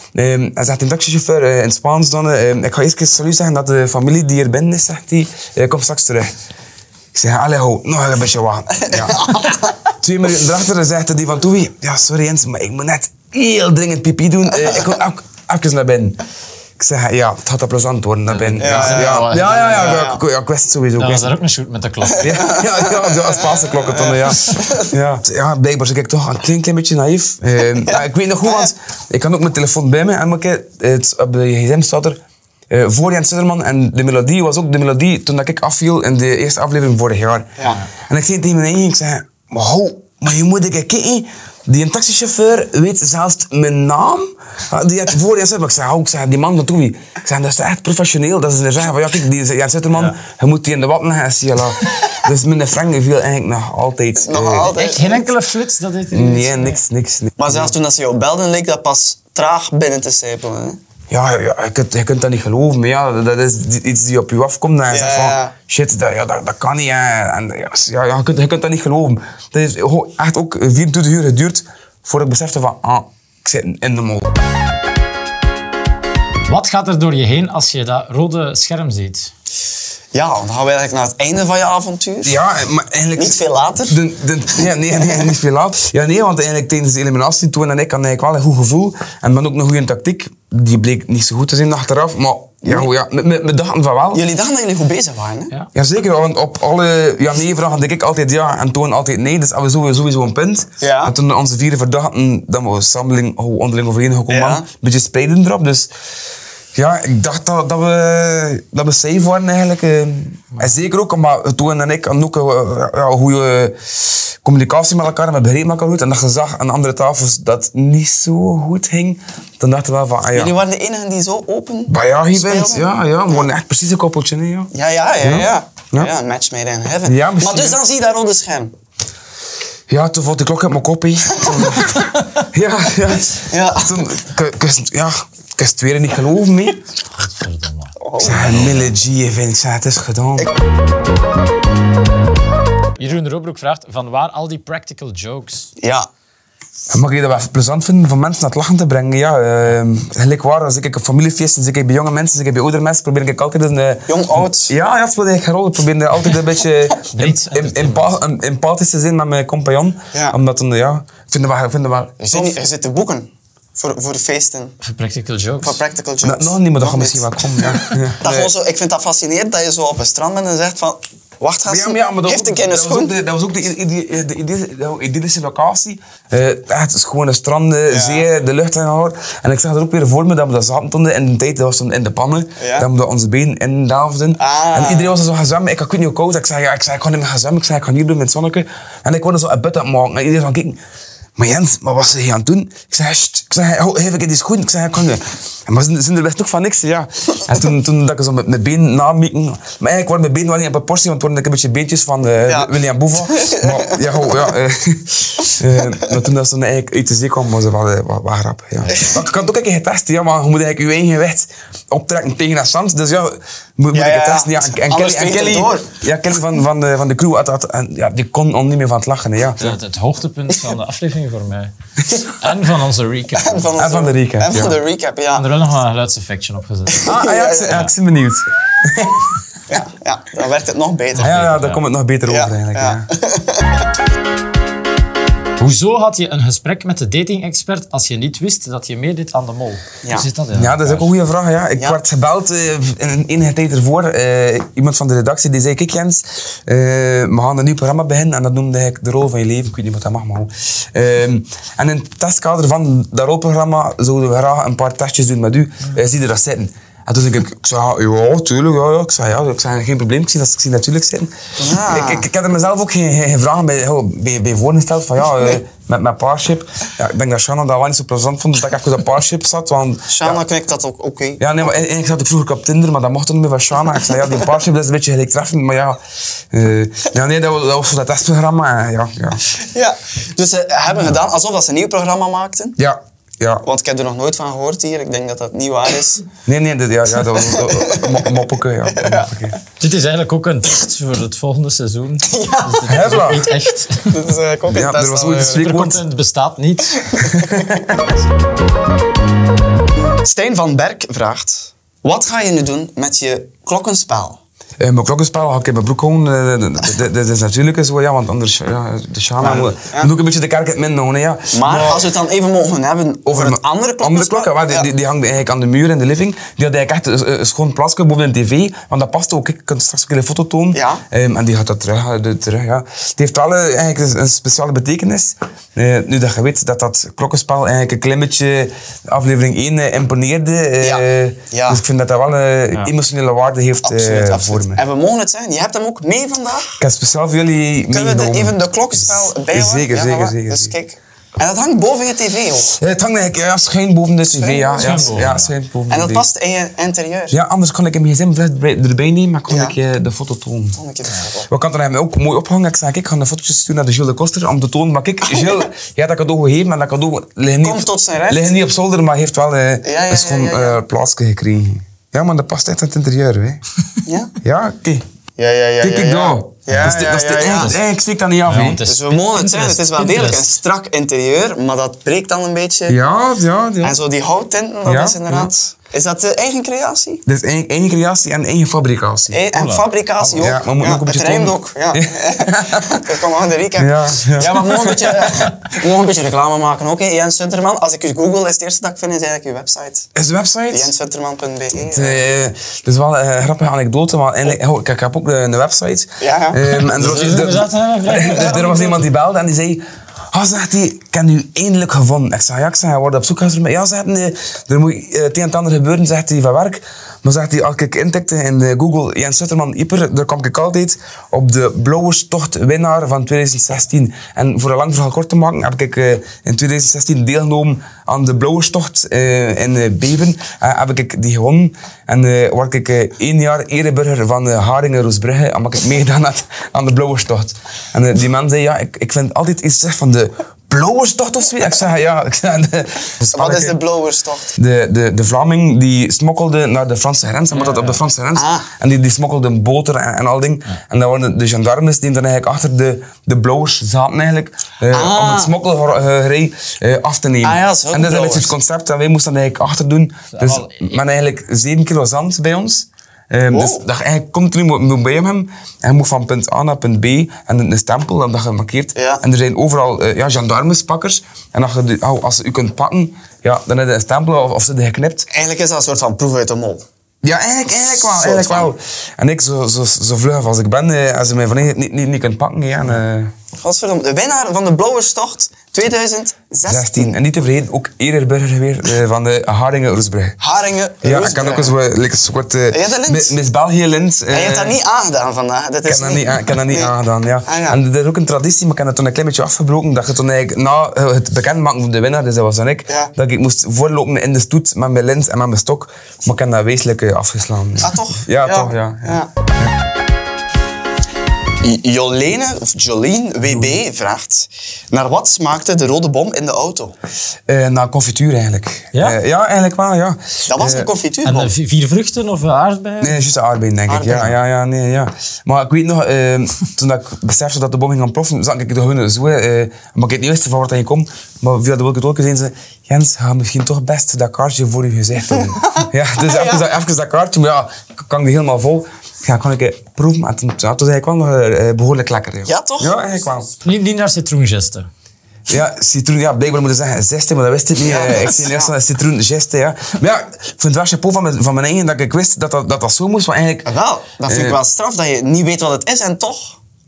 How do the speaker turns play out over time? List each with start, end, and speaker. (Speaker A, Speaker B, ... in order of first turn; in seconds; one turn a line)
Speaker A: 0.1-6.4
Speaker A: 7.1-9.5
Speaker B: 8.8-9.9
Speaker A: 10.0-16.2
Speaker A: 16.8-21.3
Speaker C: 18.3-20.0
Speaker B: 18.6-20.2
Speaker C: 21.0-22.7
Speaker A: 22.2-54.8
Speaker B: 22.3-24.9
Speaker B: 27.8-28.7
Speaker B: 37.6-37.8
Speaker B: 54.2-55.3
Speaker C: 54.8-56.8
Speaker A: 56.1-57.7
Speaker B: 57.4-60.8
Speaker A: 61.1-74.4
Speaker B: 64.9-65.5
Speaker C: 76.5-79.3
Speaker B: 80.1-82.4
Speaker A: 82.2-94.2
Speaker B: 83.2-84.0
Speaker B: 92.6-92.9
Speaker B: 94.1-95.5
Speaker A: 95.7-105.9
Speaker B: 100.8-101.2
Speaker B: 104.3-104.7
Speaker A: 106.8-120.5
Speaker B: 120.3-123.5
Speaker A: 121.9-126.1
Speaker B: 124.7-128.7
Speaker A: 127.0-127.8
Speaker A: 129.9-136.8
Speaker B: 131.3-131.9
Speaker B: 133.3-134.1
Speaker C: 137.2-138.8
Speaker B: 138.0-138.7
Speaker A: 138.2-140.5
Speaker C: 143.0-145.7
Speaker B: 145.8-146.1
Speaker A: 146.9-162.6
Speaker B: 154.1-154.7
Speaker C: 157.1-158.2
Speaker B: 162.2-164.8
Speaker C: 164.8-165.8
Speaker B: 165.6-167.3
Speaker A: 166.2-168.5
Speaker B: 168.2-173.1
Speaker A: 171.7-190.8
Speaker B: 177.9-178.3
Speaker B: 182.6-182.9
Speaker B: 184.4-185.1
Speaker A: 191.4-219.8
Speaker B: 202.5-204.5
Speaker B: 208.9-209.2
Speaker B: 213.9-215.9
Speaker C: 219.6-223.7
Speaker B: 223.3-225.5
Speaker A: 223.8-224.8
Speaker C: 225.3-227.1
Speaker B: 226.9-227.9
Speaker A: 227.1-229.3
Speaker B: 229.7-231.4
Speaker C: 231.2-231.8
Speaker A: 231.2-233.1
Speaker B: 232.3-233.9
Speaker C: 235.6-241.1
Speaker B: 240.0-240.3
Speaker A: 240.5-270.4
Speaker B: 261.6-262.3
Speaker B: 270.1-271.8
Speaker A: 271.4-276.0
Speaker A: 276.5-279.4
Speaker B: 279.5-282.8
Speaker A: 282.8-283.6
Speaker B: 283.6-286.3
Speaker A: 286.4-289.6
Speaker B: 287.3-288.4
Speaker B: 288.9-289.3
Speaker C: 289.8-294.2
Speaker B: 292.3-293.2
Speaker A: 292.9-293.5
Speaker B: 294.0-295.6
Speaker A: 294.7-296.0
Speaker C: 295.4-297.3
Speaker B: 297.2-297.4
Speaker A: 297.2-298.1
Speaker B: 300.0-304.4
Speaker A: 304.8-312.1
Speaker B: 309.4-310.1
Speaker B: 311.5-314.9
Speaker A: 313.3-334.8
Speaker B: 320.7-321.0
Speaker B: 330.8-331.8
Speaker B: 333.8-336.8
Speaker A: 336.8-340.7
Speaker B: 337.9-342.7
Speaker A: 342.7-346.3
Speaker B: 344.3-345.3
Speaker C: 344.8-345.5
Speaker B: 345.9-347.4
Speaker A: 347.3-350.8
Speaker B: 349.5-349.8
Speaker B: 350.8-351.5
Speaker A: 351.5-363.6
Speaker B: 355.3-355.6
Speaker B: 357.6-358.5
Speaker B: 359.8-360.8
Speaker B: 364.1-364.3
Speaker A: 364.4-365.1
Speaker B: 365.4-367.8
Speaker A: 365.8-368.8
Speaker C: 368.5-370.5
Speaker B: 368.7-373.0
Speaker A: 372.9-374.0
Speaker B: 373.8-377.2
Speaker A: 374.9-375.5
Speaker A: 377.3-379.4
Speaker B: 379.3-390.1
Speaker C: 379.5-379.9
Speaker A: 380.3-383.1
Speaker A: 383.8-385.5
Speaker A: 390.1-390.9
Speaker B: 390.7-392.2
Speaker A: 391.8-433.8
Speaker B: 396.2-396.6
Speaker C: 396.9-399.1
Speaker B: 433.3-434.6
Speaker A: 434.6-465.3
Speaker C: 437.5-438.0
Speaker B: 438.4-438.7
Speaker B: 444.9-445.6
Speaker B: 447.4-448.5
Speaker C: 450.3-451.0
Speaker B: 453.5-453.8
Speaker B: 458.9-459.2
Speaker B: 465.3-466.9
Speaker A: 467.2-473.3
Speaker B: 467.9-468.7
Speaker B: 473.6-477.2
Speaker A: 476.7-480.4
Speaker B: 480.4-481.8
Speaker A: 481.0-484.8
Speaker B: 482.7-483.4
Speaker B: 484.3-486.9
Speaker A: 485.9-499.7
Speaker B: 487.5-487.8
Speaker B: 497.8-499.3
Speaker B: 501.6-506.9
Speaker A: 503.4-503.8
Speaker A: 507.5-510.9
Speaker B: 510.5-511.5
Speaker C: 511.2-513.2
Speaker A: 513.0-533.5
Speaker B: 513.9-514.4
Speaker B: 525.3-526.6
Speaker B: 532.5-533.0
Speaker C: 533.6-534.9
Speaker A: 535.5-543.7
Speaker B: 537.8-538.7
Speaker B: 543.7-546.6
Speaker A: 544.3-544.6